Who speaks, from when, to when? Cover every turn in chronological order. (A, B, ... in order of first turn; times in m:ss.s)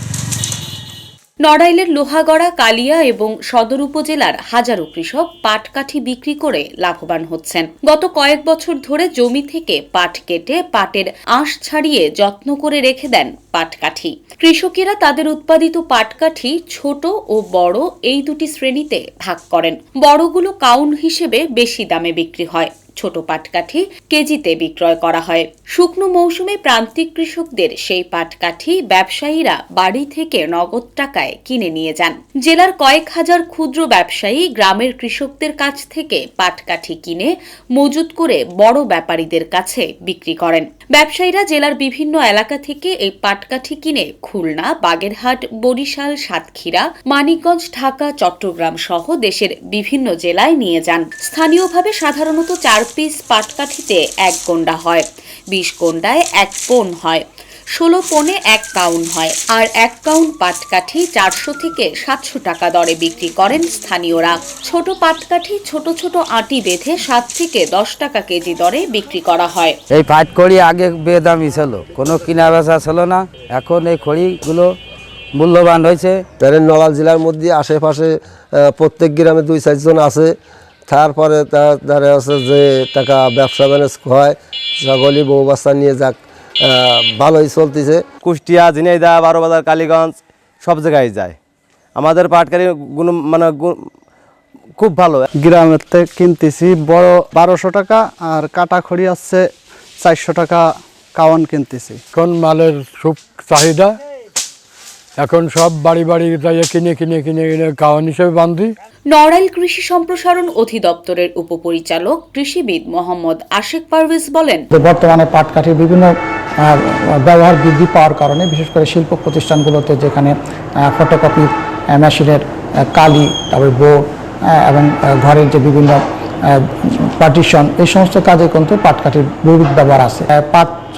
0:01.4-1:09.8 A
1:09.9-1:14.8 B
1:15.3-1:16.3 B
1:16.4-1:20.3 C
1:20.9-1:28.0 C
1:28.2-1:31.4 D
1:32.0-1:33.8 D
1:34.8-1:35.2 D
1:35.3-1:39.5 E
1:40.0-1:42.0 E
1:42.1-1:43.9 F
1:45.2-1:48.7 F
1:49.1-1:54.7 A
1:54.7-2:04.0 G
2:04.6-2:10.8 G